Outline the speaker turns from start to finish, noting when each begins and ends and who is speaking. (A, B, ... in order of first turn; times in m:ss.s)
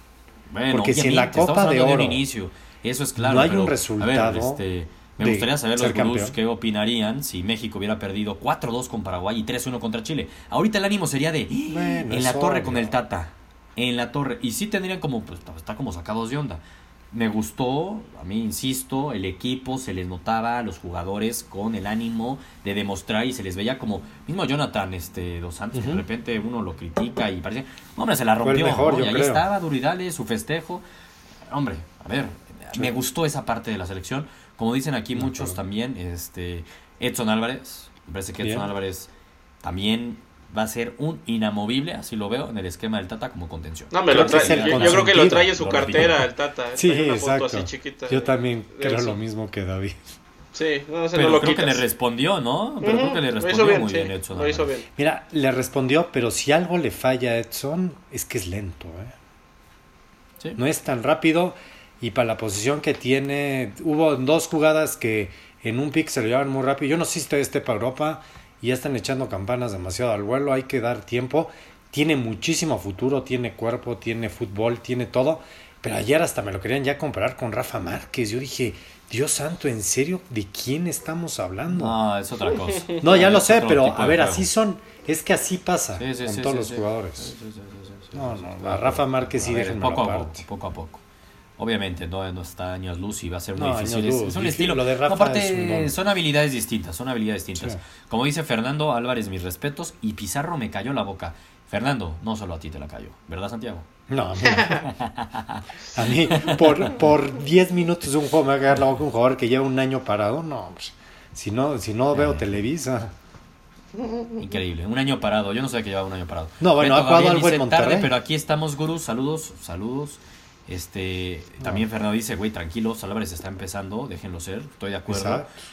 0:00.5-0:16.6 A
0:00.7-0:02.2 B
0:03.2-0:04.6 B
0:05.2-0:06.4 B
0:11.7-0:12.9 B
0:17.1-0:30.8 A
0:25.7-0:26.0 B
0:28.4-0:29.5 B
0:31.5-0:39.1 A
0:35.2-0:35.6 B
0:38.4-0:38.7 B
0:39.6-0:46.3 A
0:43.9-0:49.2 C
0:44.1-0:46.1 B
0:46.8-0:50.1 B
0:50.6-0:51.8 C
0:51.2-0:54.7 A
0:52.8-0:54.9 C
0:55.0-0:59.2 B
1:00.6-1:22.0 B
1:21.7-1:24.5 A
1:23.0-1:27.3 B
1:26.0-1:31.0 A
1:28.2-1:30.4 B
1:31.6-1:43.9 A
1:33.6-1:35.9 B
1:44.1-1:44.9 B
1:44.7-1:46.9 A
1:46.0-1:53.1 B
1:52.1-1:52.5 A
1:54.4-2:05.4 A
1:56.6-1:58.1 B
2:05.1-2:05.5 B